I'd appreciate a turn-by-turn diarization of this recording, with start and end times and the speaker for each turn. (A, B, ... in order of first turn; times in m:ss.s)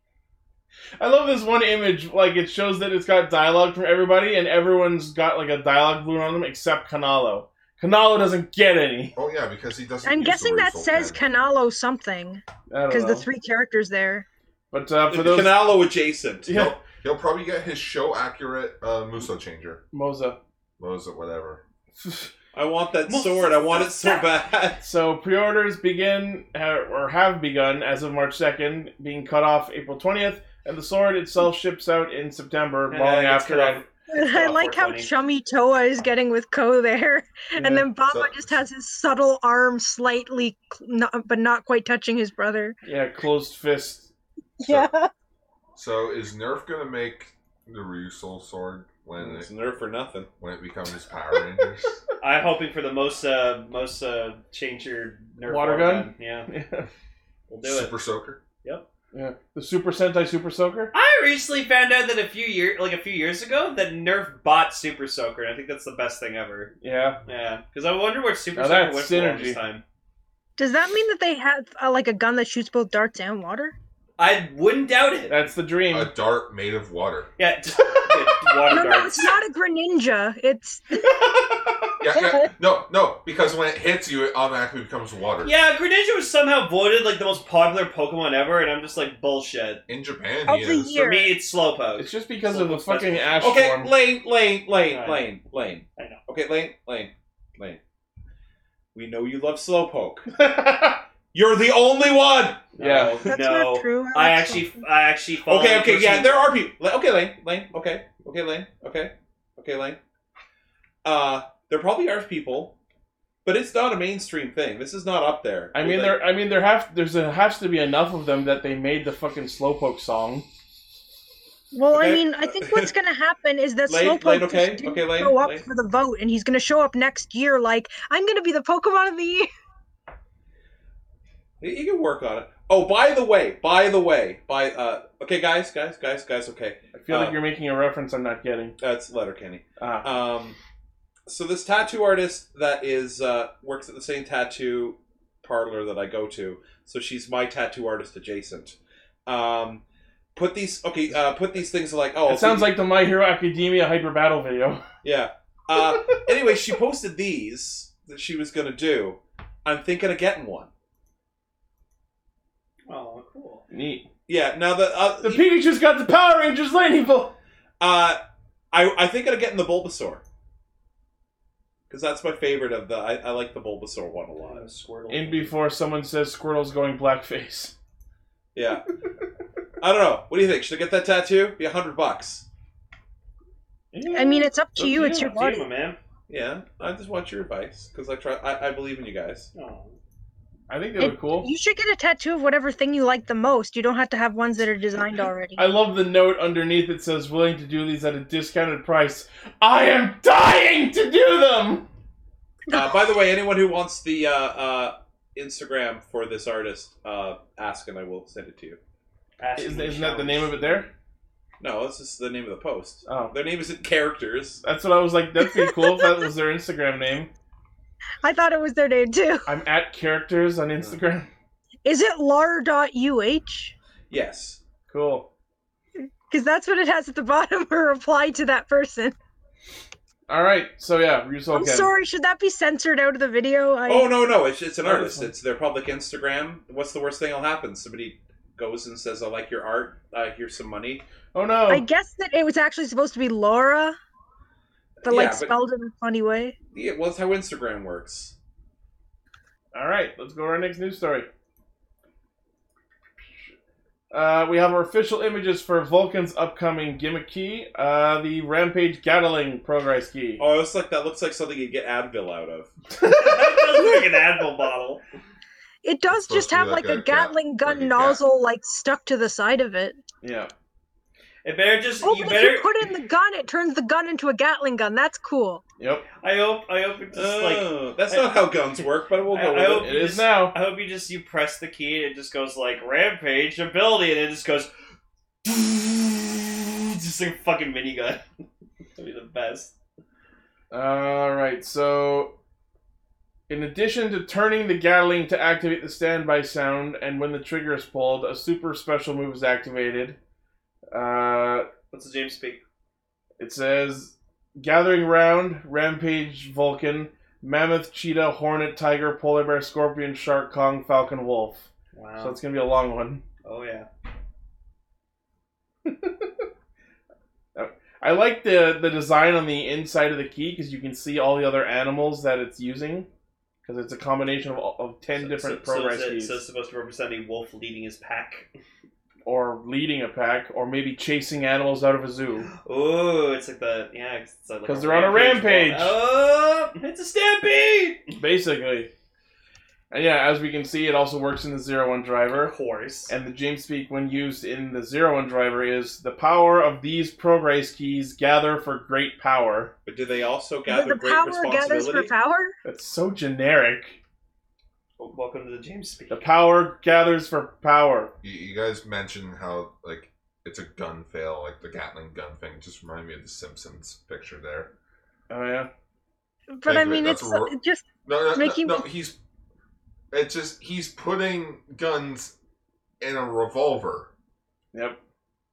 0:01.0-0:09.2 A
0:09.2-0:11.2 B
0:10.0-0:14.3 C
0:12.7-0:13.3 A
0:14.7-0:15.6 A
0:15.1-0:16.6 D
0:16.5-0:16.8 A
0:16.5-0:19.8 B
0:19.9-0:20.4 A
0:20.8-0:21.6 B
0:22.0-0:22.3 A
0:22.5-0:24.8 D
0:23.1-0:24.0 E
0:24.8-0:33.8 A
0:32.9-0:35.1 E
0:34.1-0:42.8 C
0:37.6-0:37.9 A
0:38.1-0:38.6 B
0:42.8-0:44.1 A
0:44.6-0:45.1 C
0:45.8-0:49.5 B
0:49.2-0:50.3 D
0:50.4-0:52.0 B
0:52.2-0:56.5 E
0:55.4-0:56.9 A
0:57.5-0:58.0 E
0:57.6-0:58.4 B
0:59.1-1:00.9 A
1:00.9-1:06.8 E
1:06.8-1:07.2 A
1:07.3-1:09.8 E
1:08.6-1:09.6 A
1:10.6-1:13.8 C
1:14.2-1:15.3 E
1:15.3-1:16.1 A
1:15.9-1:17.3 B
1:17.4-1:19.3 E
1:18.7-1:21.3 C
1:22.0-1:25.5 B
1:22.1-1:22.5 C
1:25.4-1:29.8 E
1:29.9-1:31.0 B
1:30.5-1:31.3 C
1:31.0-1:33.3 E
1:32.0-1:33.9 A
1:33.4-1:37.8 D
1:34.9-1:35.3 E
1:38.9-1:40.3 D
1:40.3-1:41.0 A
1:41.3-1:42.7 D
1:42.7-1:46.6 E
1:42.8-1:43.2 A
1:43.3-1:44.8 C
1:45.4-1:50.0 D
1:51.0-1:52.8 D
1:53.4-1:56.2 D
1:55.7-2:00.5 A
2:01.7-2:09.5 C
2:01.9-2:02.9 D
2:03.9-2:05.6 D
2:11.6-2:17.4 D
2:16.9-2:18.8 A
2:18.8-2:20.6 D
2:19.8-2:20.3 A
2:21.3-2:29.8 D
2:30.4-2:32.8 D
2:32.2-2:34.9 A
2:35.0-2:40.7 D
2:35.7-2:36.3 A
2:42.9-2:43.6 E
2:43.7-2:44.1 A
2:44.3-2:45.5 D
2:45.2-2:47.4 A
2:47.8-2:48.2 D
2:48.7-2:50.2 D
2:51.9-2:54.7 D
2:54.4-2:55.5 E
2:55.1-2:57.7 A
2:58.6-2:58.8 D
2:59.8-3:02.5 D
3:03.9-3:05.4 A
3:04.1-3:05.7 C
3:05.3-3:06.0 E
3:06.3-3:09.5 D
3:09.5-3:10.0 E
3:10.7-3:11.5 A
3:11.0-3:15.7 C
3:15.6-3:21.9 A
3:22.7-3:28.8 D
3:22.7-3:23.1 C
3:29.4-3:30.9 E
3:29.6-3:30.9 A
3:31.6-3:34.6 D
3:33.0-3:33.4 A
3:34.6-3:37.3 A
3:35.4-3:36.2 C
3:38.2-3:39.5 C
3:39.5-3:41.3 A
3:41.8-3:43.7 C
3:44.1-3:44.6 D
3:44.9-3:45.3 A
3:46.3-3:49.2 C
3:50.3-3:51.9 A
3:51.5-3:54.2 C
3:53.9-4:01.0 D
3:54.8-3:55.3 A
4:01.3-4:01.8 A
4:01.7-4:04.0 C
4:05.0-4:05.5 D
4:05.0-4:06.6 C
4:06.7-4:08.4 D
4:09.7-4:11.3 A
4:14.1-4:20.4 A
4:20.4-4:22.7 D
4:23.0-4:23.4 A
4:23.0-4:25.0 E
4:23.8-4:24.2 C
4:25.8-4:30.0 C
4:26.1-4:28.2 B
4:30.2-4:30.5 A
4:31.4-4:32.8 E
4:32.0-4:35.6 C
4:35.8-4:36.1 A
4:36.2-4:38.3 E
4:37.1-4:39.9 D
4:39.3-4:44.7 E
4:39.7-4:40.6 A
4:45.4-4:48.2 E
4:49.0-4:49.7 E
4:50.7-4:52.4 A
4:53.5-5:00.2 A
5:00.9-5:01.7 A
5:01.9-5:02.6 E
5:03.4-5:11.7 A
5:11.9-5:12.4 E
5:12.2-5:13.2 A
5:13.4-5:13.9 E
5:15.9-5:16.3 A
5:17.6-5:23.1 A
5:23.6-5:26.4 A
5:25.2-5:28.5 E
5:29.2-5:32.5 A
5:32.5-5:38.2 E
5:34.7-5:36.0 A
5:38.2-5:38.9 A
5:39.9-5:42.5 A
5:42.4-5:43.1 E
5:43.1-5:49.7 A
5:49.8-5:52.1 D
5:50.7-5:52.6 C
5:52.6-5:54.0 A
5:55.0-5:56.3 E
5:56.1-5:58.1 A
5:58.2-6:04.7 B
6:05.3-6:05.7 A
6:06.5-6:08.8 C
6:06.7-6:09.2 B
6:10.1-6:12.3 B
6:13.0-6:14.1 B